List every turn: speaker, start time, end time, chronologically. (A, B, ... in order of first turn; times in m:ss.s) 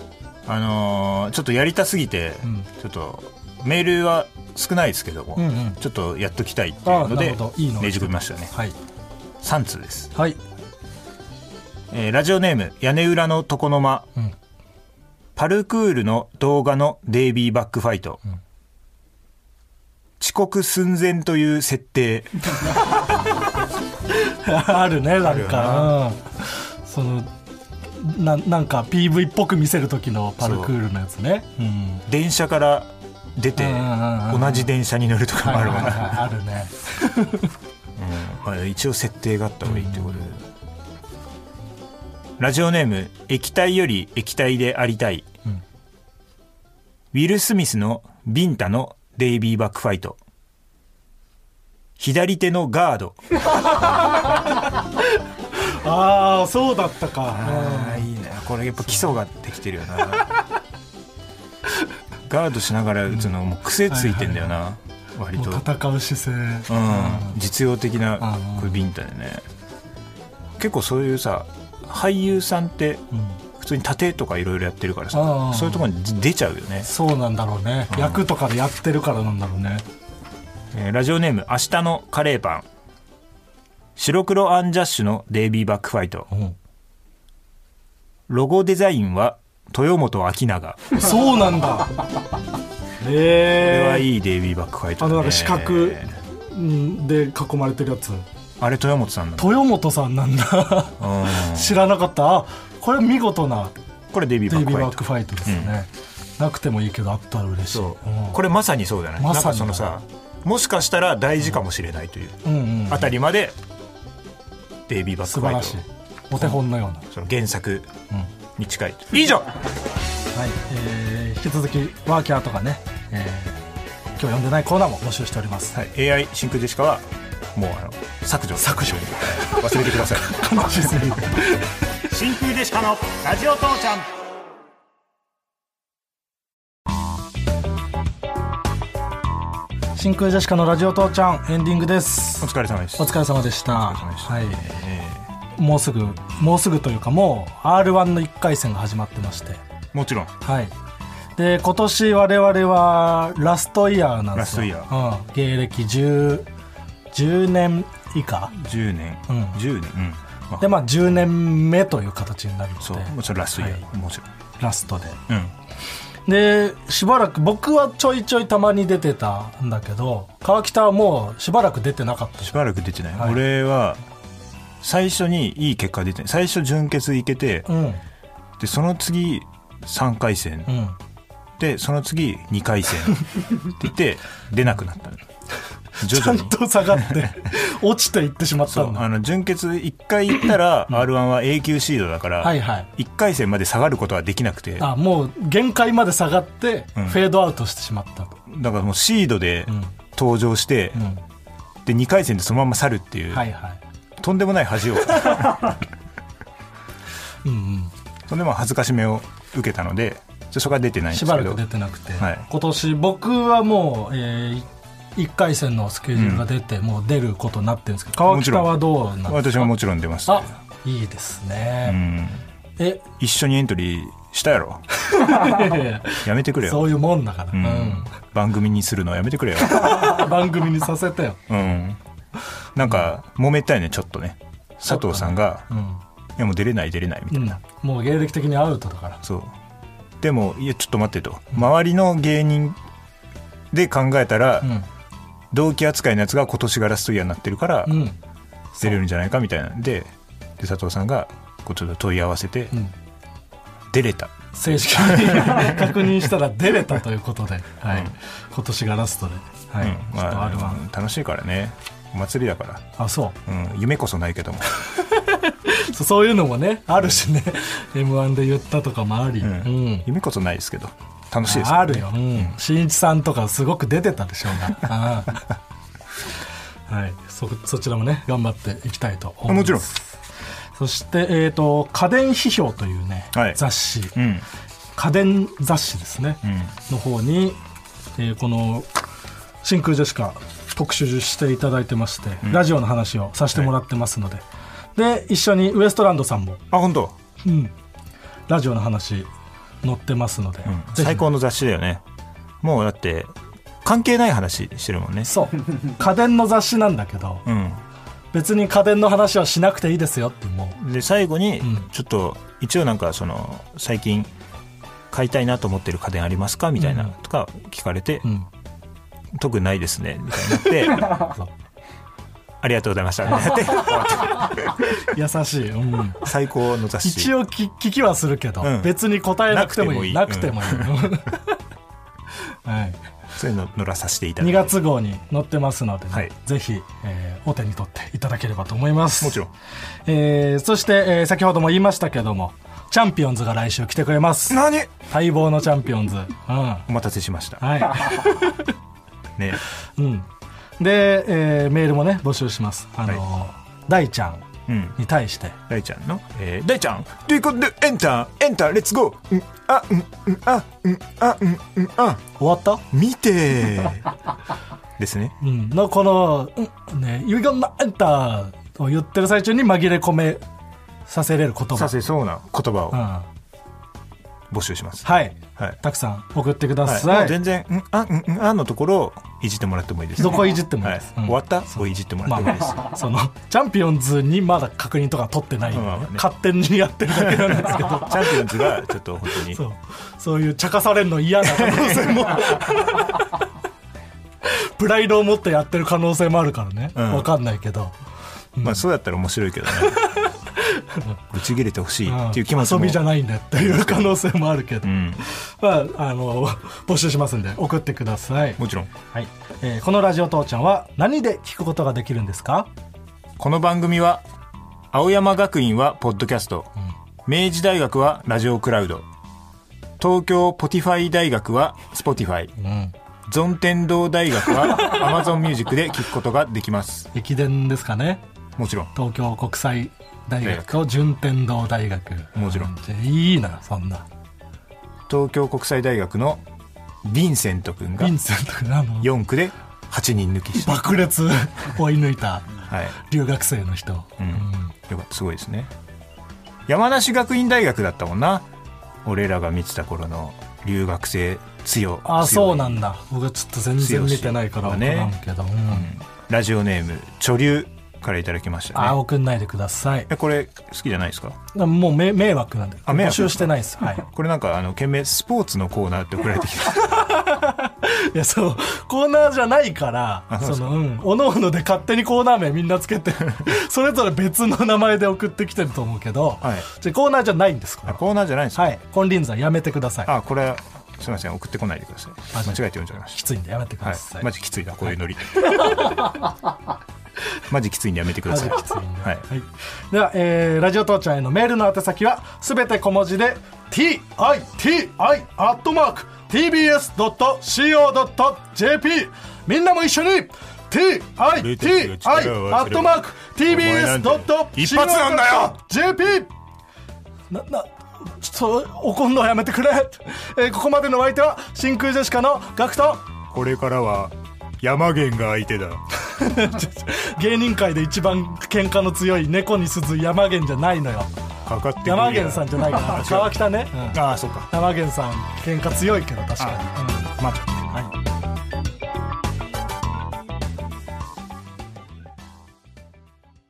0:00.4-0:08.5 A
0:05.4-0:05.8 B
0:06.8-0:08.7 B
0:09.4-0:10.1 A
0:10.1-0:10.4 B
0:11.9-0:14.1 A
0:15.4-0:18.2 A
0:20.2-0:22.5 A
0:24.1-0:27.3 B
0:25.2-0:26.0 A
0:28.0-0:32.0 B
0:30.4-0:30.7 A
0:32.1-0:36.2 A
0:33.6-0:34.7 B
0:35.4-0:37.5 B
0:38.0-0:40.5 A
0:39.6-0:40.2 B
0:42.4-0:45.3 A
0:47.1-0:50.2 A
0:52.0-0:53.2 A
0:53.8-0:54.2 B
0:55.5-0:58.1 B
0:57.3-1:00.3 A
1:02.2-1:05.7 A
1:03.9-1:04.5 B
1:05.4-1:07.4 B
1:06.7-1:09.4 A
1:08.2-1:08.8 B
1:10.6-1:16.9 A
1:13.1-1:13.4 B
1:15.1-1:15.8 B
1:16.8-1:19.8 B
1:17.9-1:18.2 A
1:20.7-1:22.6 A
1:24.0-1:26.3 A
1:26.3-1:26.6 B
1:28.3-1:30.9 A
1:30.9-1:31.9 B
1:33.0-1:34.1 B
1:33.5-1:36.2 A
1:35.0-1:38.2 B
1:38.6-1:39.6 A
1:39.4-1:43.8 B
1:41.0-1:41.8 A
1:44.1-1:45.8 A
1:44.5-1:48.4 B
1:47.7-1:53.6 A
1:49.2-1:49.9 B
1:52.4-1:53.1 B
1:54.9-1:55.8 A
1:55.2-1:57.0 B
1:56.3-1:57.9 A
1:58.6-1:59.5 A
2:00.3-2:03.6 B
2:04.2-2:05.7 B
2:05.7-2:10.4 A
2:08.6-2:11.7 B
2:12.1-2:14.1 A
2:20.0-2:24.7 B
2:22.4-2:25.3 A
2:25.5-2:29.6 B
2:29.9-2:30.3 A
2:30.4-2:30.7 B
2:31.4-2:36.5 B
2:34.3-2:34.9 A
2:37.1-2:38.5 B
2:38.5-2:40.8 A
2:39.3-2:39.6 B
2:40.6-2:43.8 B
2:42.8-2:44.3 A
2:44.6-2:45.2 B
2:45.3-2:45.5 A
2:46.2-2:52.5 B
2:52.4-2:54.0 A
2:54.8-2:57.7 A
2:57.7-2:58.0 B
2:58.6-3:00.8 A
3:00.7-3:01.0 B
3:01.6-3:05.2 A
3:06.0-3:09.0 B
3:06.0-3:07.3 A
3:08.7-3:14.9 A
3:12.4-3:12.9 B
3:14.8-3:18.4 B
3:17.0-3:17.2 A
3:18.5-3:21.1 A
3:20.9-3:21.2 B
3:21.8-3:23.4 A
3:23.3-3:23.8 B
3:24.2-3:25.8 A
3:27.4-3:27.9 B
3:28.3-3:31.6 A
3:31.1-3:39.7 B
3:32.2-3:32.4 A
3:36.1-3:36.4 A
3:38.2-3:40.5 A
3:40.3-3:42.0 B
3:41.8-3:42.4 A
3:42.8-3:43.0 B
3:43.2-3:44.8 A
3:45.0-3:48.1 B
3:46.2-3:46.9 A
3:47.5-3:50.3 A
3:49.6-3:51.4 B
3:51.5-3:52.0 A
3:52.7-3:55.7 A
3:54.9-3:56.0 B
3:56.4-3:57.6 A
3:57.3-3:59.2 B
3:59.2-3:59.5 A
4:00.2-4:02.8 A
4:03.7-4:04.8 A
4:05.5-4:08.1 A
4:07.8-4:08.2 B
4:08.7-4:09.0 B
4:08.8-4:12.7 A
4:13.9-4:16.1 A
4:14.5-4:20.8 B
4:19.8-4:22.8 A
4:23.0-4:23.4 B
4:23.4-4:24.8 A
4:24.9-4:30.1 B
4:29.4-4:32.5 A
4:31.4-4:35.4 B
4:36.9-4:40.0 B
4:39.5-4:39.9 A
4:40.8-4:44.2 B
4:43.3-4:43.6 A
4:44.1-4:44.4 A
4:45.0-4:47.6 B
4:46.4-4:46.7 A
4:48.2-4:48.9 B
4:49.6-4:54.4 B
4:55.0-4:56.6 B
4:56.7-4:57.2 A
4:57.4-4:57.7 B
4:58.5-4:59.3 B
4:59.8-5:01.3 B
5:00.6-5:02.0 A
5:02.6-5:05.3 A
5:05.2-5:07.4 B
5:07.4-5:07.8 A
5:08.3-5:10.8 B
5:10.8-5:14.3 A
5:11.6-5:11.9 B
5:15.1-5:18.3 A
5:16.8-5:17.1 B
5:19.3-5:21.2 A
5:21.0-5:21.5 B
5:22.6-5:24.8 A
5:23.4-5:23.7 B
5:24.8-5:26.3 B
5:26.2-5:27.3 A
5:27.0-5:31.6 B
5:28.6-5:31.0 A
5:32.6-5:33.0 B
5:33.3-5:34.7 A
5:34.4-5:39.4 B
5:39.2-5:39.5 A
5:40.0-5:46.9 B
5:44.5-5:44.9 A
5:46.9-5:48.1 A
5:47.6-5:48.7 B
5:50.0-5:50.3 B
5:50.8-5:54.4 B
5:54.7-5:55.0 A
5:55.0-5:55.6 B
5:55.7-6:02.2 A
6:02.4-6:02.8 B
6:02.9-6:04.1 A
6:05.0-6:05.3 A
6:05.4-6:10.4 B
6:11.1-6:11.9 B
6:11.7-6:13.0 A
6:12.9-6:13.3 B
6:14.5-6:15.8 A
6:15.0-6:17.4 B
6:16.8-6:23.0 A
6:20.2-6:28.6 B
6:25.7-6:26.2 A
6:27.1-6:29.6 A
6:29.5-6:33.4 B
6:31.4-6:32.7 A
6:34.4-6:37.9 B
6:36.9-6:37.3 A
6:38.6-6:38.8 B
6:38.6-6:40.0 A
6:39.8-6:41.2 B
6:41.3-6:44.2 A
6:42.0-6:48.6 B
6:44.8-6:45.2 A
6:48.6-6:48.9 A
6:49.1-6:52.7 B
6:53.4-6:54.2 A
6:54.9-6:56.7 A
6:57.2-6:59.0 A
7:00.0-7:02.5 A
7:02.6-7:02.9 B
7:03.3-7:07.1 A
7:07.1-7:08.2 B
7:08.6-7:08.9 A
7:08.9-7:14.0 B
7:10.4-7:10.8 A
7:12.4-7:12.7 A
7:15.1-7:16.4 A
7:17.0-7:18.2 A
7:18.0-7:19.1 B
7:19.0-7:20.9 A
7:20.6-7:24.7 B
7:22.7-7:23.0 A
7:24.2-7:25.7 A
7:26.7-7:28.5 A
7:29.0-7:32.8 A
7:32.0-7:35.9 B
7:33.8-7:35.2 A
7:35.7-7:39.0 A
7:38.7-7:40.1 B
7:40.1-7:41.4 A
7:41.5-7:44.0 B
7:42.9-7:47.1 A
7:46.8-7:58.0 B
7:50.3-7:50.8 A
7:56.4-7:56.7 A
7:57.9-7:58.8 A
7:58.5-8:00.1 B
8:00.0-8:03.2 A
8:02.3-8:02.6 B
8:03.1-8:04.3 B
8:03.8-8:05.7 A
8:05.3-8:06.1 B
8:07.5-8:09.2 A
8:08.3-8:26.3 B
8:21.3-8:25.6 A
8:27.3-8:33.1 B
8:33.3-8:35.8 A
8:36.0-8:41.1 B
8:41.4-8:44.5 A
8:41.8-8:44.0 B
8:44.5-8:47.2 B
8:46.4-8:47.9 A